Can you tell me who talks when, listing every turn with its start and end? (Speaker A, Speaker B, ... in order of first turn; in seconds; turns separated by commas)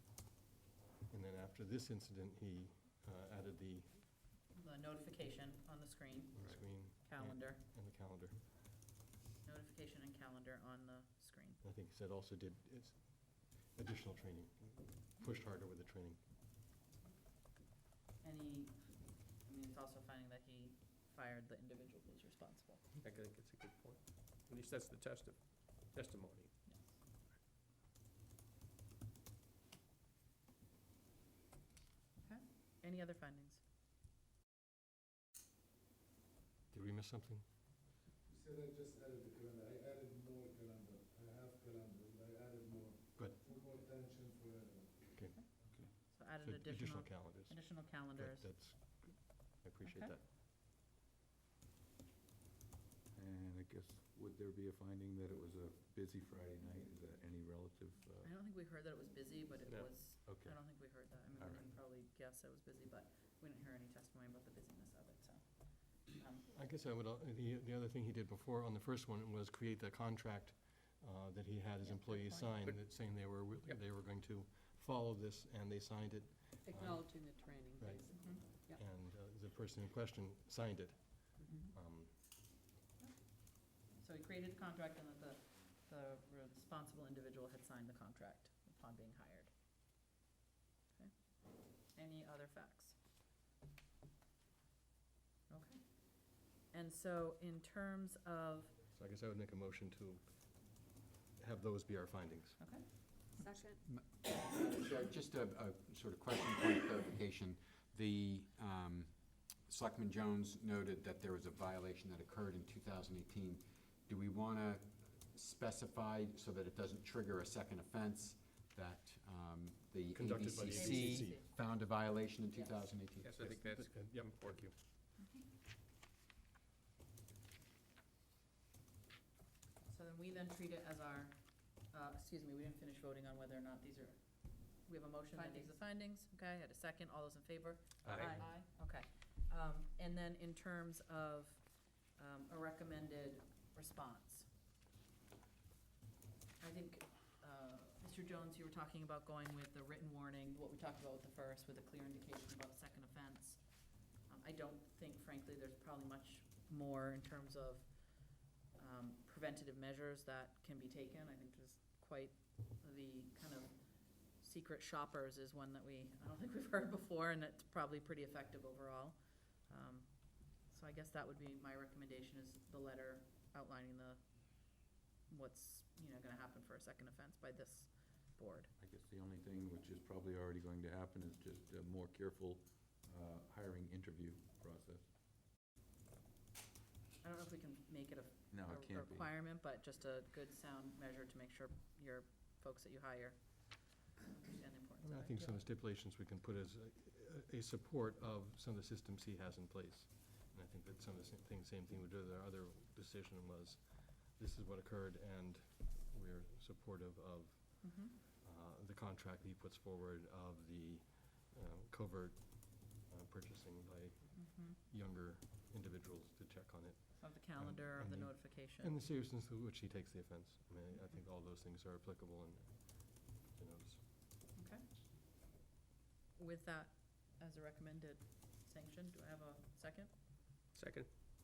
Speaker A: 1.1-4.0, Speaker B: 4.5-7.6, Speaker A: 6.3-8.5, Speaker C: 6.4-6.7, Speaker B: 9.4-11.6, Speaker A: 11.6-16.3, Speaker B: 18.2-22.8, Speaker D: 23.0-26.6, Speaker B: 26.7-27.0, Speaker B: 32.2-33.6, Speaker A: 36.7-37.5, Speaker E: 38.3-45.2, Speaker A: 45.1-45.5, Speaker B: 45.4-48.5, Speaker A: 46.2-50.2, Speaker B: 49.8-50.2, Speaker C: 53.1-58.3, Speaker B: 58.2-66.5, Speaker C: 60.2-61.7, Speaker A: 66.5-82.2, Speaker B: 71.8-72.5, Speaker F: 76.7-78.8, Speaker B: 78.1-78.4, Speaker B: 83.0-89.5, Speaker B: 91.8-93.0, Speaker B: 95.5-98.8, Speaker A: 98.9-102.9, Speaker B: 102.6-103.4, Speaker F: 103.4-103.8, Speaker G: 103.8-109.2, Speaker G: 109.7-123.6, Speaker A: 120.1-121.4, Speaker B: 120.7-121.5, Speaker B: 122.5-122.9, Speaker D: 123.2-124.6, Speaker A: 123.3-124.7, Speaker B: 125.2-125.5, Speaker B: 129.8-144.5, Speaker F: 135.3-135.7, Speaker C: 138.1-138.5, Speaker F: 138.1-138.5, Speaker B: 146.6-153.6, Speaker B: 154.3-158.3, Speaker B: 158.8-178.7, Speaker C: 178.8-185.1, Speaker B: 187.2-195.7, Speaker C: 188.5-189.3, Speaker A: 195.0-224.0, Speaker B: 207.8-208.2, Speaker B: 214.3-214.8, Speaker B: 217.2-218.9, Speaker B: 224.6-224.8, Speaker B: 226.4-230.1, Speaker D: 230.7-231.1